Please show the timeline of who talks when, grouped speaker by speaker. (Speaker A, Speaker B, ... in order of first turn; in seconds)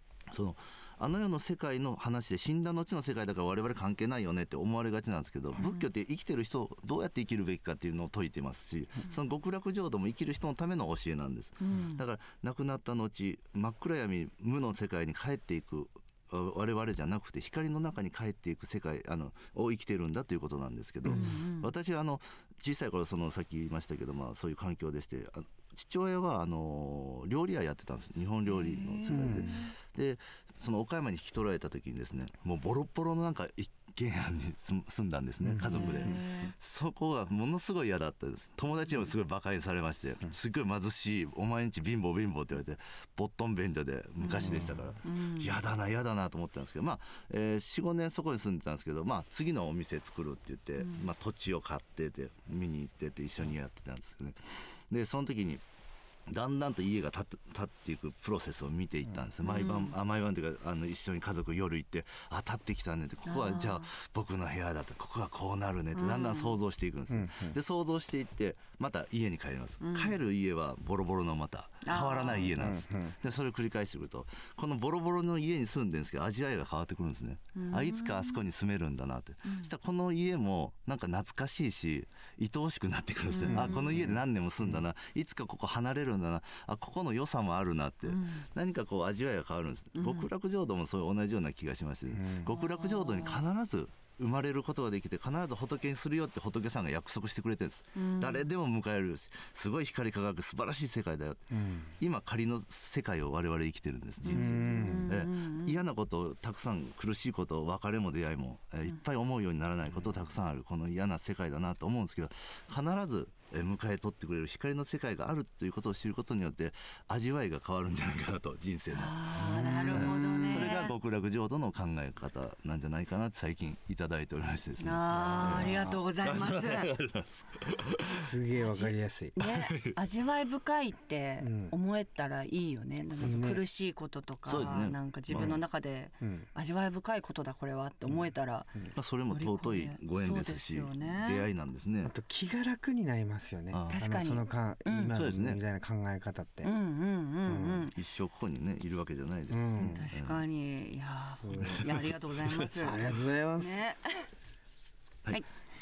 Speaker A: 0.3-55.6, 56.3-128.3, 129.4-130.0, 134.4-135.6, 138.9-142.1, 143.7-144.0, 145.1-145.6, 147.9-150.4, 151.5-152.7
Speaker B: 5.6-5.9, 11.6-12.0, 21.1-21.7, 28.5-29.7, 35.6-36.5, 44.2-45.6, 50.8-51.1, 59.4-60.0, 63.2-63.9, 65.9-66.6, 69.8-70.2, 71.8-72.5, 77.5-78.4, 83.3-84.1, 88.1-88.5, 90.0-90.3, 92.5-93.4, 98.0-98.5, 104.2-105.8, 118.9-120.9, 124.8-126.9, 128.5-138.7, 139.3-141.4, 143.9-145.1, 146.6-147.9, 149.8-153.0, 153.6-154.3
Speaker C: 21.0-21.3, 29.1-29.5, 35.4-36.2, 44.4-44.8, 67.1-67.6, 72.4-73.2, 83.5-84.8, 92.1-92.5, 101.5-101.9, 104.3-105.1, 119.4-120.8, 125.3-126.0, 128.1-129.4, 131.4-131.7, 133.2-133.6, 136.2-136.5, 142.0-146.7, 147.4-147.9, 149.5-150.1, 151.4-151.8, 152.8-153.9